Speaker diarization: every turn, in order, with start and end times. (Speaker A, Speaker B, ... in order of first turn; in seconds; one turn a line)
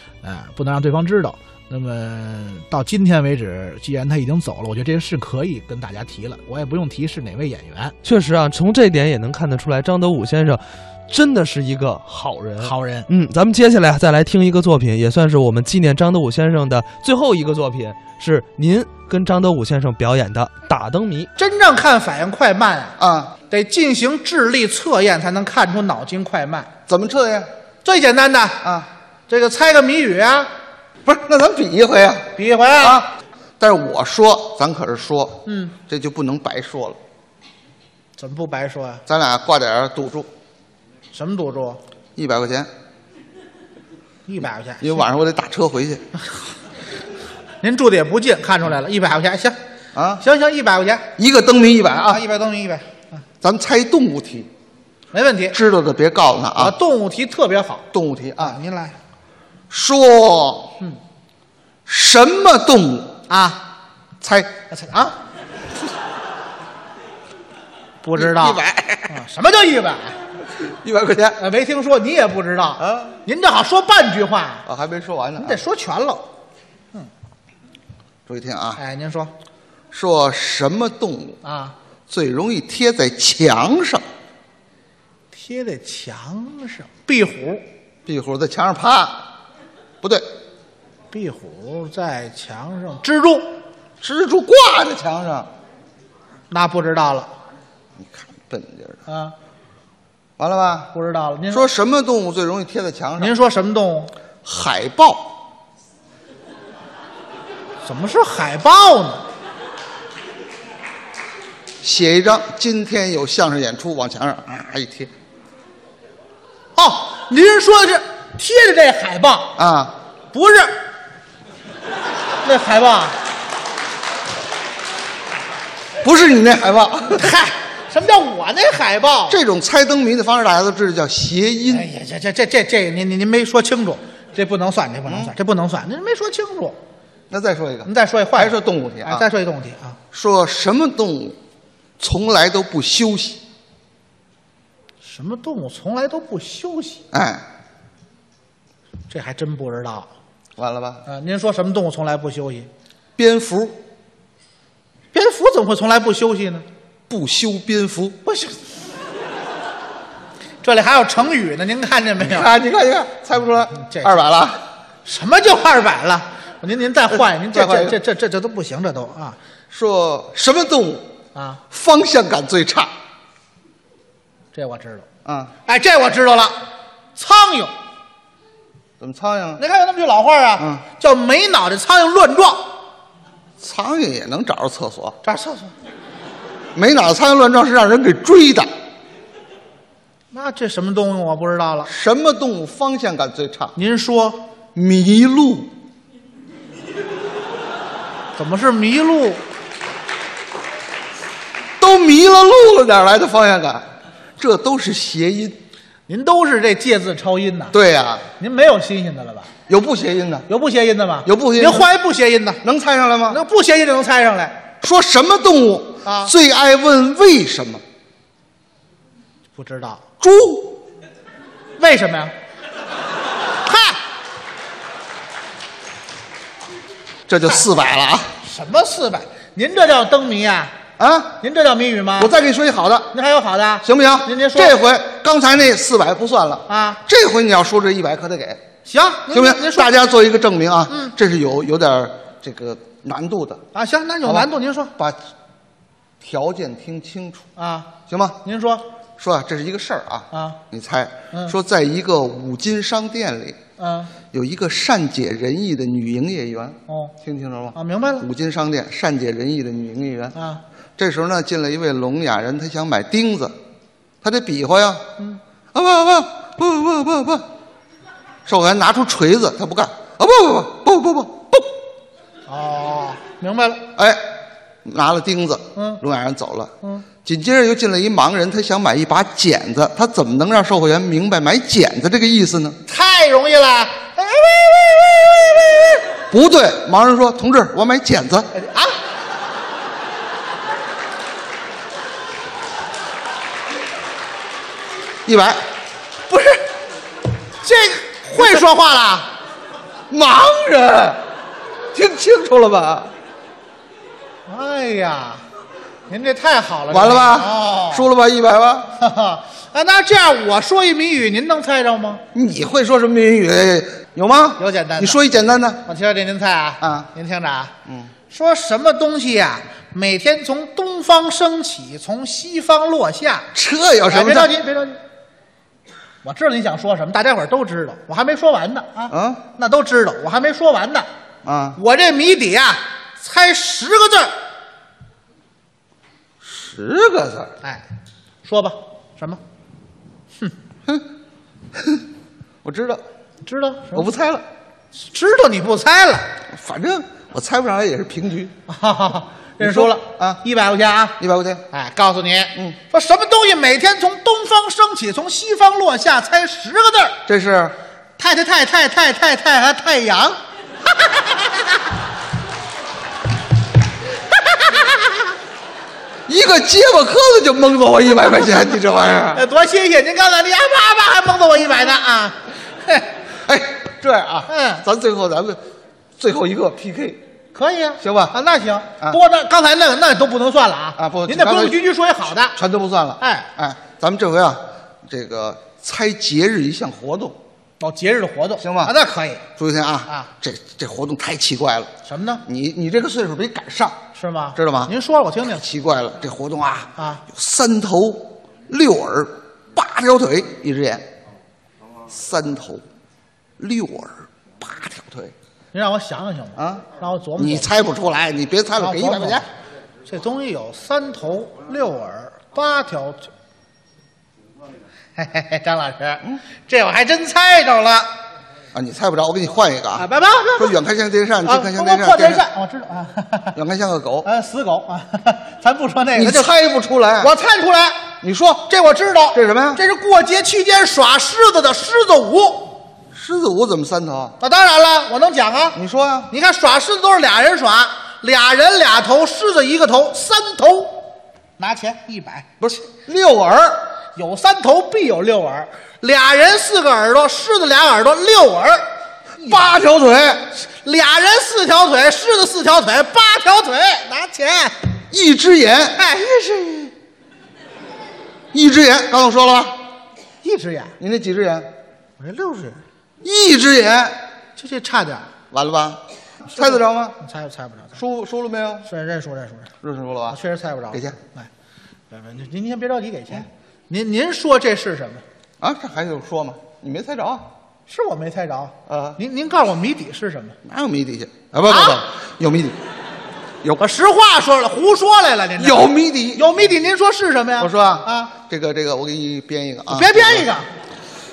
Speaker A: 0.2-8.0
Speaker B: 8.0-21.3
Speaker A: 12.6-13.1
Speaker A: 21.4-22.9
Speaker C: 23.0-23.3
Speaker A: 23.5-26.7
Speaker C: 26.9-27.5
Speaker A: 27.8-28.6
Speaker C: 28.6-28.9
Speaker A: 29.3-30.5
Speaker C: 31.0-37.0
Speaker A: 32.3-33.0
Speaker A: 35.5-35.7
Speaker A: 38.2-39.0
Speaker C: 39.1-40.3
Speaker A: 41.1-41.8
Speaker C: 42.1-42.7
Speaker A: 44.3-45.0
Speaker C: 44.8-46.0
Speaker A: 47.6-49.6
Speaker C: 49.9-50.2
Speaker A: 50.2-51.0
Speaker C: 51.2-52.2
Speaker A: 52.1-53.0
Speaker C: 53.4-54.5
Speaker A: 55.1-55.5
Speaker C: 55.5-56.8
Speaker A: 56.6-57.8
Speaker C: 57.9-58.6
Speaker A: 58.4-59.0
Speaker C: 59.7-60.8
Speaker C: 61.9-63.1
Speaker A: 63.3-63.6
Speaker C: 64.2-64.5
Speaker A: 64.7-65.2
Speaker A: 68.0-70.2
Speaker C: 68.1-69.2
Speaker C: 70.6-71.4
Speaker A: 71.4-74.6
Speaker C: 72.8-73.2
Speaker C: 74.7-75.6
Speaker A: 75.4-76.2
Speaker C: 78.3-78.8
Speaker A: 78.8-79.3
Speaker C: 79.9-81.4
Speaker A: 81.4-81.7
Speaker C: 82.1-84.0
Speaker A: 85.3-87.6
Speaker C: 88.0-89.3
Speaker C: 90.0-90.3
Speaker A: 91.1-93.5
Speaker C: 94.0-95.5
Speaker A: 96.5-97.3
Speaker C: 98.0-99.0
Speaker A: 99.1-99.3
Speaker C: 100.4-100.9
Speaker A: 100.9-101.6
Speaker C: 101.5-103.3
Speaker A: 103.2-104.1
Speaker C: 104.4-105.3
Speaker A: 107.8-109.2
Speaker C: 111.8-115.1
Speaker A: 116.8-119.5
Speaker C: 119.5-120.0
Speaker A: 120.3-120.7
Speaker A: 122.4-123.2
Speaker C: 126.0-127.3
Speaker A: 127.1-129.4
Speaker C: 129.3-131.9
Speaker A: 131.7-136.8
Speaker C: 135.1-135.3
Speaker C: 137.3-139.3
Speaker A: 137.8-140.0
Speaker C: 140.1-141.4
Speaker C: 142.0-143.4
Speaker A: 145.0-147.0
Speaker C: 147.1-147.4
Speaker A: 149.1-150.1
Speaker C: 150.6-151.0
Speaker A: 151.1-152.7
Speaker C: 153.2-153.8
Speaker A: 155.1-156.7
Speaker C: 157.1-158.4
Speaker A: 160.6-162.5
Speaker C: 162.2-164.7
Speaker A: 163.8-164.1
Speaker A: 165.0-169.4
Speaker C: 167.1-168.0
Speaker C: 169.7-171.1
Speaker A: 171.3-171.6
Speaker C: 171.7-172.9
Speaker A: 174.5-175.1
Speaker C: 175.2-175.5
Speaker A: 175.7-176.6
Speaker A: 177.2-177.7
Speaker C: 179.0-179.6
Speaker A: 179.6-182.7
Speaker C: 180.6-180.8
Speaker C: 183.6-185.2
Speaker A: 185.2-185.7
Speaker C: 186.7-188.7
Speaker A: 190.3-191.9
Speaker C: 191.9-193.7
Speaker A: 193.8-194.4
Speaker C: 194.7-195.7
Speaker A: 198.3-199.4
Speaker C: 201.8-203.9
Speaker C: 204.4-205.6
Speaker A: 206.1-207.7
Speaker C: 207.7-208.3
Speaker A: 208.4-209.5
Speaker C: 209.7-210.5
Speaker A: 210.5-212.6
Speaker C: 211.2-211.9
Speaker C: 212.6-213.4
Speaker A: 213.3-214.6
Speaker C: 214.8-217.8
Speaker A: 216.0-216.3
Speaker A: 219.5-220.0
Speaker C: 220.2-220.8
Speaker A: 221.8-222.3
Speaker A: 223.6-224.0
Speaker C: 227.3-228.4
Speaker A: 228.4-230.7
Speaker C: 231.0-231.4
Speaker A: 231.4-232.3
Speaker C: 232.2-233.1
Speaker A: 233.1-234.8
Speaker C: 233.8-238.6
Speaker A: 236.7-237.0
Speaker A: 238.8-240.1
Speaker C: 239.3-243.6
Speaker A: 243.7-244.9
Speaker C: 244.2-245.2
Speaker C: 246.2-247.4
Speaker A: 247.6-247.9
Speaker C: 248.1-248.4
Speaker A: 248.4-248.8
Speaker C: 249.2-253.6
Speaker A: 250.3-250.6
Speaker A: 253.8-254.1
Speaker C: 254.3-260.4
Speaker A: 256.9-257.1
Speaker A: 257.7-258.2
Speaker A: 260.3-260.6
Speaker C: 261.0-263.6
Speaker C: 264.2-265.1
Speaker C: 265.7-267.4
Speaker C: 268.4-271.7
Speaker A: 272.5-273.9
Speaker C: 273.9-274.2
Speaker C: 274.8-282.8
Speaker A: 275.7-276.0
Speaker A: 282.9-286.0
Speaker C: 286.3-288.5
Speaker A: 288.5-288.9
Speaker C: 295.2-295.6
Speaker A: 296.3-296.6
Speaker A: 297.6-299.3
Speaker C: 300.1-301.2
Speaker C: 301.9-303.1
Speaker A: 304.5-305.4
Speaker A: 306.1-308.1
Speaker C: 306.9-308.9
Speaker A: 308.9-312.2
Speaker C: 312.3-315.8
Speaker A: 314.6-315.2
Speaker A: 315.8-317.7
Speaker C: 316.8-317.1
Speaker C: 317.9-318.1
Speaker A: 318.3-323.5
Speaker C: 323.5-324.6
Speaker A: 324.1-325.0
Speaker A: 326.2-331.1
Speaker C: 329.1-329.4
Speaker C: 331.4-331.8
Speaker A: 331.8-334.3
Speaker C: 336.4-337.5
Speaker A: 338.4-339.4
Speaker C: 342.6-343.0
Speaker A: 343.4-344.1
Speaker C: 343.9-344.4
Speaker A: 344.9-346.3
Speaker C: 346.5-348.5
Speaker A: 348.7-351.2
Speaker C: 349.6-350.4
Speaker C: 351.2-351.7
Speaker A: 351.7-357.2
Speaker C: 357.2-357.8
Speaker A: 358.2-360.4
Speaker C: 366.3-369.4
Speaker A: 369.3-373.1
Speaker C: 373.4-375.6
Speaker A: 374.5-374.8
Speaker C: 376.2-377.2
Speaker A: 377.5-382.6
Speaker C: 378.0-378.4
Speaker C: 381.0-381.8
Speaker C: 382.5-387.4
Speaker A: 383.2-383.5
Speaker A: 387.8-389.4
Speaker C: 388.6-388.9
Speaker C: 389.6-391.9
Speaker A: 392.1-392.4
Speaker C: 392.4-394.0
Speaker A: 394.1-395.6
Speaker C: 394.5-401.1
Speaker A: 397.0-397.2
Speaker C: 402.1-402.8
Speaker C: 403.6-405.3
Speaker A: 405.7-407.7
Speaker C: 406.6-406.9
Speaker C: 407.4-409.5
Speaker A: 408.8-409.4
Speaker A: 410.1-413.3
Speaker A: 415.1-418.1
Speaker C: 418.7-422.4
Speaker A: 420.0-420.7
Speaker A: 421.4-423.6
Speaker C: 423.5-424.3
Speaker A: 424.2-426.5
Speaker C: 426.1-427.3
Speaker A: 427.2-428.1
Speaker C: 428.2-428.7
Speaker A: 428.7-432.8
Speaker C: 429.3-429.8
Speaker C: 433.1-434.4
Speaker A: 434.4-435.8
Speaker C: 435.7-436.3
Speaker A: 436.3-441.1
Speaker A: 441.6-442.5
Speaker C: 442.6-443.9
Speaker A: 444.1-448.8
Speaker A: 449.4-449.8
Speaker C: 449.4-450.5
Speaker A: 450.6-454.9
Speaker C: 455.1-456.0
Speaker A: 455.9-456.9
Speaker C: 458.5-459.8
Speaker A: 460.4-460.9
Speaker C: 461.0-461.7
Speaker A: 462.2-462.8
Speaker C: 463.2-464.2
Speaker A: 464.6-465.3
Speaker C: 465.5-467.2
Speaker A: 466.5-468.0
Speaker C: 467.9-468.9
Speaker A: 468.9-469.7
Speaker C: 469.8-470.4
Speaker A: 470.3-471.5
Speaker C: 470.9-471.2
Speaker A: 472.1-475.2
Speaker C: 475.6-477.5
Speaker A: 477.9-480.6
Speaker C: 478.9-479.2
Speaker C: 480.6-482.8
Speaker A: 481.7-482.0
Speaker A: 483.7-488.3
Speaker C: 485.6-486.6
Speaker C: 487.6-490.5
Speaker A: 489.9-490.7